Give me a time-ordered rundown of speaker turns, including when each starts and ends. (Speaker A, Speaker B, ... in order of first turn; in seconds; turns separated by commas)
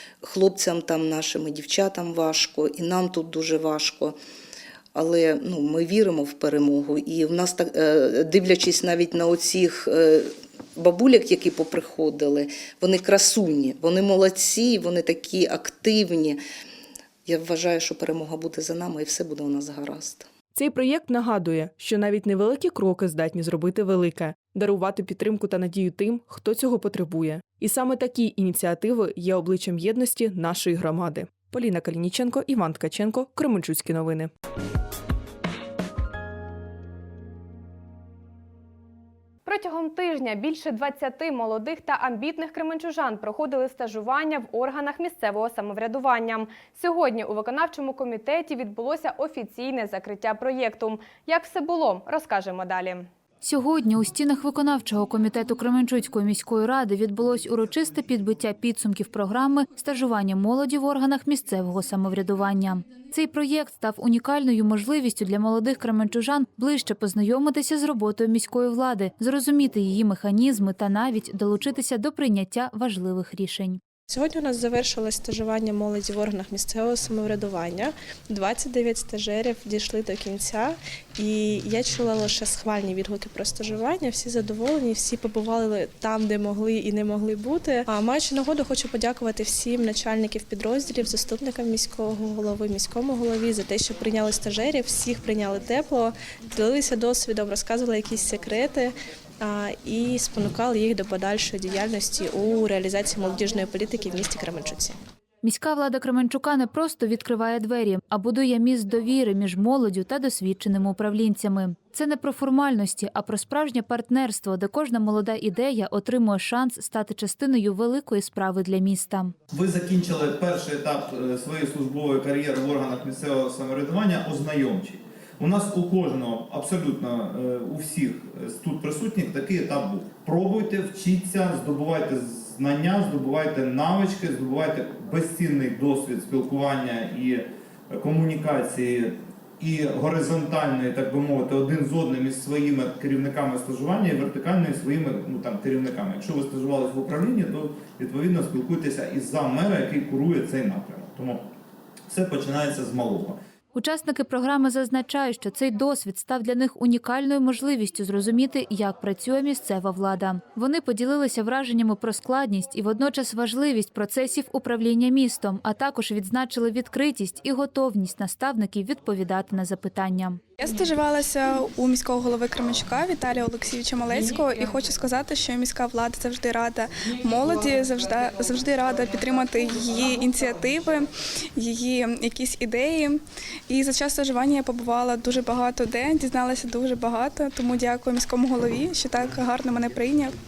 Speaker A: 0.2-4.2, Speaker A: 4.9-16.4, Speaker A: 17.2-20.3, Speaker B: 20.5-34.3, Speaker C: 39.5-53.1, Speaker D: 53.4-73.8, Speaker E: 74.1-105.0, Speaker D: 105.4-119.3, Speaker F: 119.5-151.4, Speaker F: 152.1-153.4, Speaker D: 153.7-170.4, Speaker G: 170.6-190.4